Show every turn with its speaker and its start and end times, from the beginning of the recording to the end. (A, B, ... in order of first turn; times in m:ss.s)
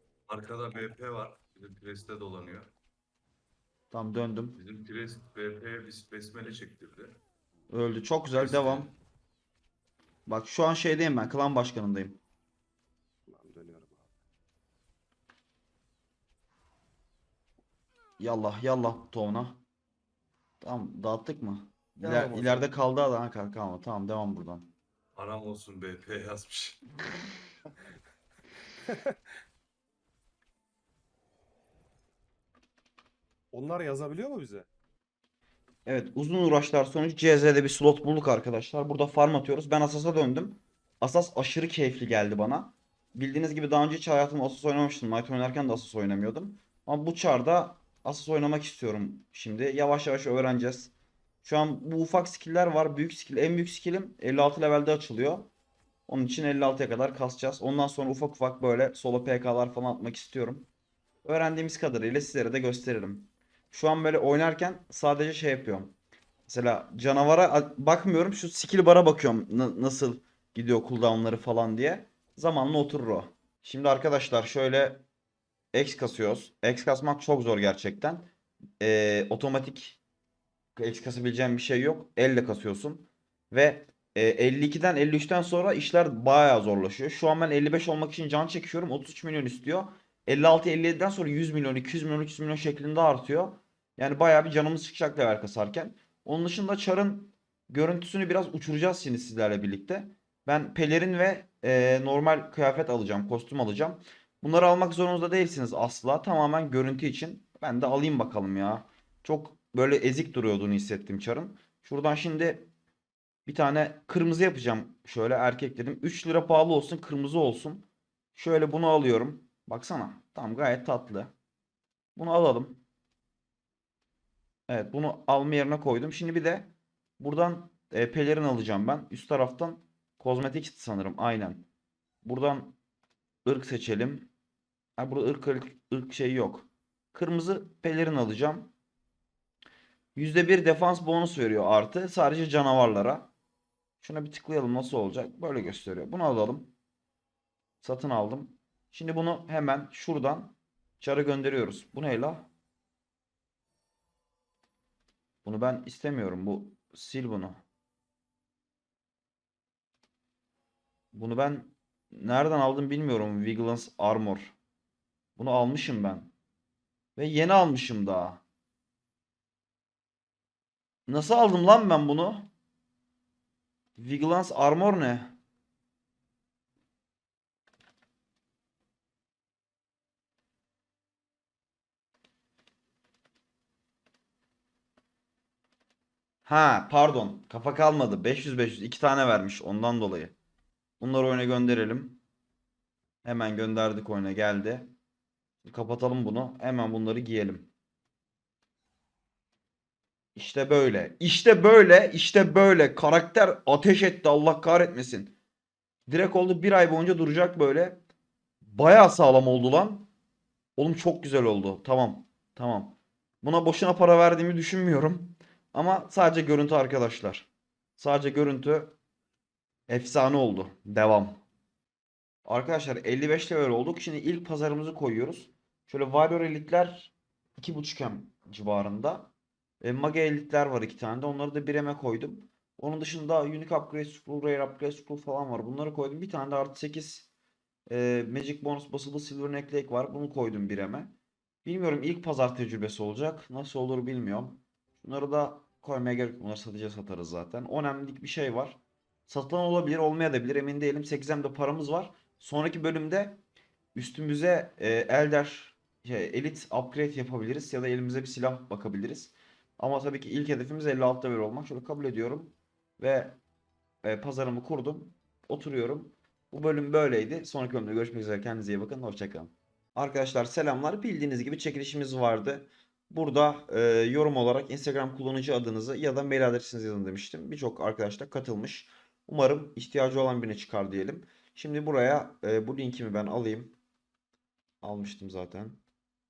0:00.3-0:02.7 A
0:03.9-0:04.6 B
0:04.6-0:07.2 A
0:07.7-0:08.9 B
0:08.3-0:08.9 A
0:10.2-0:12.2 B
0:13.3-0:14.1 C
0:18.2-0:19.6 B
0:20.6-0:24.7 B
0:22.0-0:22.7 C
0:25.2-0:26.8 A
0:28.9-0:29.1 C
0:33.5-0:34.7 C
0:35.8-0:55.5 B
0:56.1-1:00.7 B
1:01.2-1:05.9 B
1:06.4-1:15.0 B
1:15.7-1:18.3 B
1:18.8-1:20.0 B
1:20.8-1:52.7 B
1:53.4-1:57.8 B
1:58.3-2:01.3 B
2:02.1-2:02.8 B
2:04.7-2:11.6 B
2:12.2-2:12.8 B
2:13.4-2:14.3 B
2:15.0-2:18.7 B
2:20.1-2:23.3 B
2:24.0-2:26.7 B
2:27.8-2:32.5 B
2:35.4-2:37.6 B
2:41.1-2:44.5 B
2:45.4-2:46.3 B
2:47.2-2:48.4 B
2:51.1-2:52.5 B
2:54.0-2:55.4 B
3:06.4-3:10.3 B
3:11.0-3:12.2 B
3:13.2-3:14.9 B
3:15.6-3:17.7 B
3:20.4-3:25.3 B
3:26.1-3:28.0 B
3:28.6-3:30.1 B
3:30.8-3:38.9 B
3:39.9-3:41.4 B
3:42.4-3:57.3 B
3:57.9-4:01.1 B
4:01.6-4:13.4 B
4:13.9-4:23.4 B
4:24.0-4:43.7 B
4:44.8-4:45.8 B